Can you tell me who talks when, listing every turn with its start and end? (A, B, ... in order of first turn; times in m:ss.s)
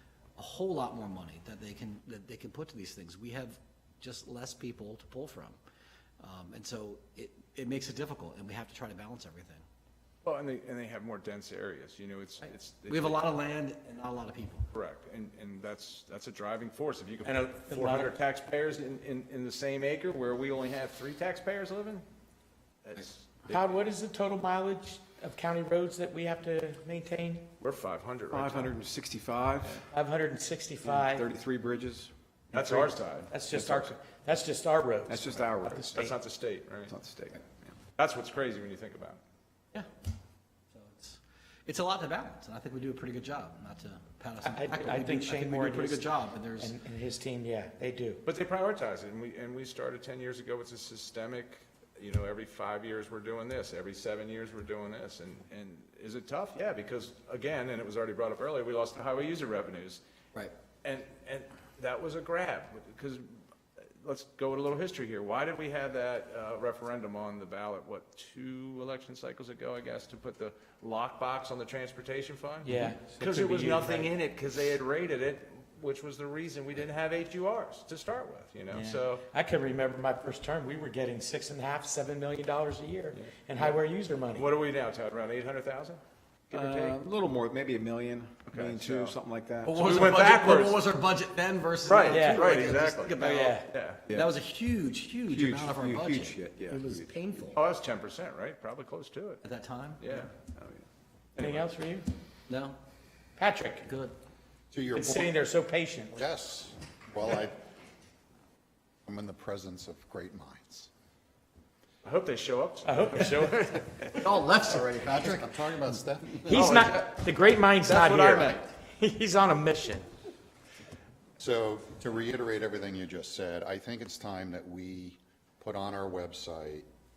0:00.4-0:05.6 A
0:06.2-0:09.6 A
0:10.2-0:13.3 B
0:12.9-0:14.7 A
0:14.7-0:22.0 B
0:17.2-0:18.1 C
0:22.8-0:23.8 B
0:23.5-0:27.5 C
0:27.6-0:28.8 B
0:28.3-0:29.8 D
0:29.9-0:31.3 C
0:30.8-0:33.8 D
0:32.5-0:33.4 B
0:33.3-0:36.1 C
0:35.0-0:36.0 D
0:35.4-0:36.9 B
0:36.9-0:37.7 D
0:37.9-0:39.2 B
0:40.7-0:46.7 A
0:44.4-0:48.2 C
0:48.2-1:00.0 B
1:00.8-1:19.2 B
1:12.6-1:14.1 C
1:18.7-1:24.5 C
1:23.1-1:23.8 B
1:24.3-1:27.0 B
1:26.5-1:29.8 D
1:28.5-1:29.2 B
1:29.6-1:37.6 A
1:29.7-1:30.8 B
1:31.8-1:34.0 B
1:32.1-1:33.7 C
1:35.3-1:37.1 D
1:37.5-1:39.4 B
1:39.4-1:40.3 A
1:40.0-1:40.7 B
1:41.4-1:41.7 B
1:41.4-1:42.1 C
1:42.5-1:42.8 A
1:43.4-1:43.8 C
1:43.8-1:44.1 A
1:44.7-1:45.4 E
1:44.9-1:46.2 C
1:46.2-1:47.6 E
1:49.0-1:50.9 E
1:52.0-1:54.1 B
1:52.8-1:54.0 C
1:54.2-1:56.9 A
1:54.7-1:56.8 E
1:56.5-2:00.0 C
1:56.5-1:57.1 B
1:57.8-1:58.6 B
2:01.4-2:06.8 E